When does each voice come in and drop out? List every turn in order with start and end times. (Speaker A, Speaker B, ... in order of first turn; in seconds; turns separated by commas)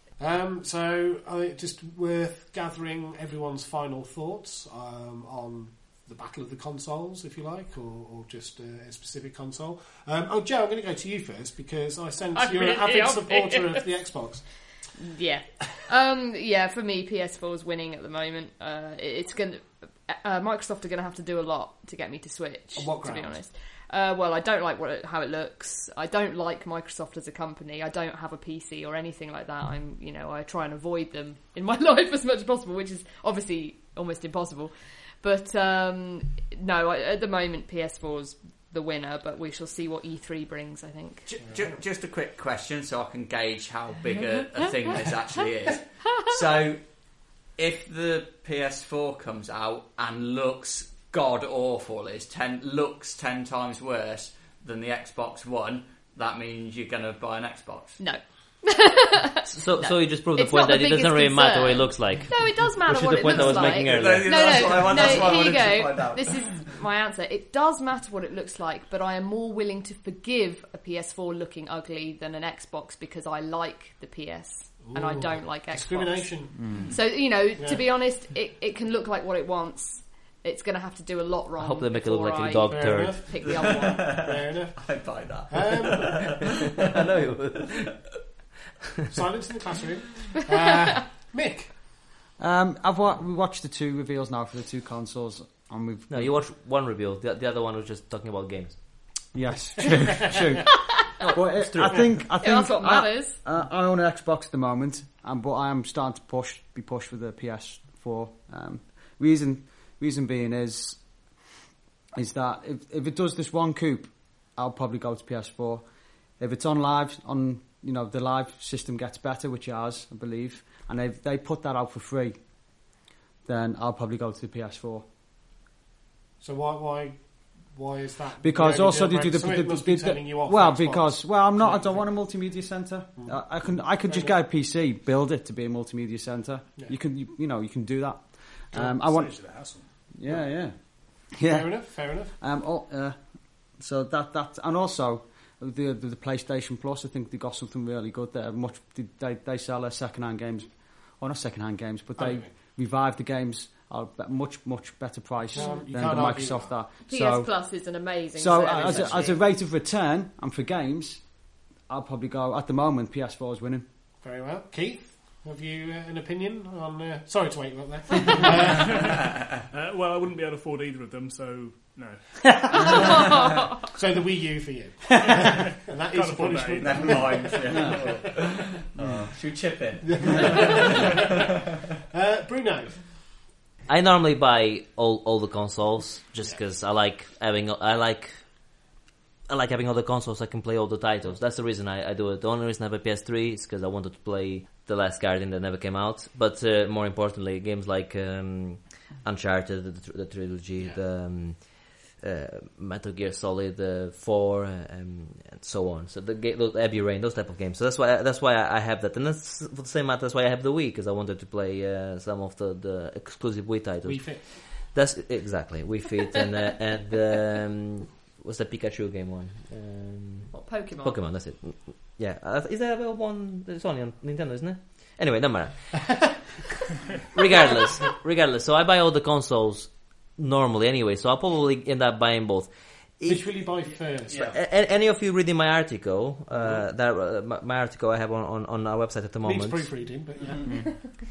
Speaker A: 0.2-15.0, Speaker B: 12.3-14.1, Speaker B: 15.0-41.3, Speaker A: 22.8-23.4, Speaker C: 41.3-58.1, Speaker A: 41.4-41.8, Speaker B: 44.6-45.1, Speaker B: 58.0-84.2, Speaker D: 59.5-65.2, Speaker C: 63.2-66.6, Speaker A: 74.8-76.7, Speaker E: 76.6-76.9, Speaker A: 77.6-77.8, Speaker D: 81.6-83.5, Speaker A: 82.7-86.4, Speaker C: 83.4-86.5, Speaker D: 86.8-88.4, Speaker D: 89.0-89.2, Speaker A: 89.1-91.8, Speaker E: 92.4-96.4, Speaker D: 96.1-99.3, Speaker E: 99.3-111.4, Speaker D: 101.2-102.5, Speaker B: 102.4-103.4, Speaker E: 112.1-122.9, Speaker E: 123.4-125.0, Speaker A: 126.4-134.3, Speaker E: 128.4-163.9, Speaker F: 138.7-140.2, Speaker A: 140.2-142.4, Speaker A: 152.2-152.5, Speaker A: 155.5-156.8, Speaker B: 155.6-156.4, Speaker B: 157.1-159.4, Speaker A: 164.2-169.3, Speaker F: 169.7-172.9, Speaker A: 173.9-178.2, Speaker F: 175.2-178.0, Speaker C: 176.8-181.3, Speaker E: 177.7-178.0, Speaker A: 180.0-181.3, Speaker A: 182.1-183.2, Speaker D: 183.9-188.9, Speaker D: 189.5-226.5, Speaker A: 214.0-214.7, Speaker B: 220.5-221.2, Speaker D: 227.3-240.2, Speaker A: 227.7-228.1, Speaker A: 233.3-234.6, Speaker C: 234.3-234.6, Speaker A: 239.4-241.0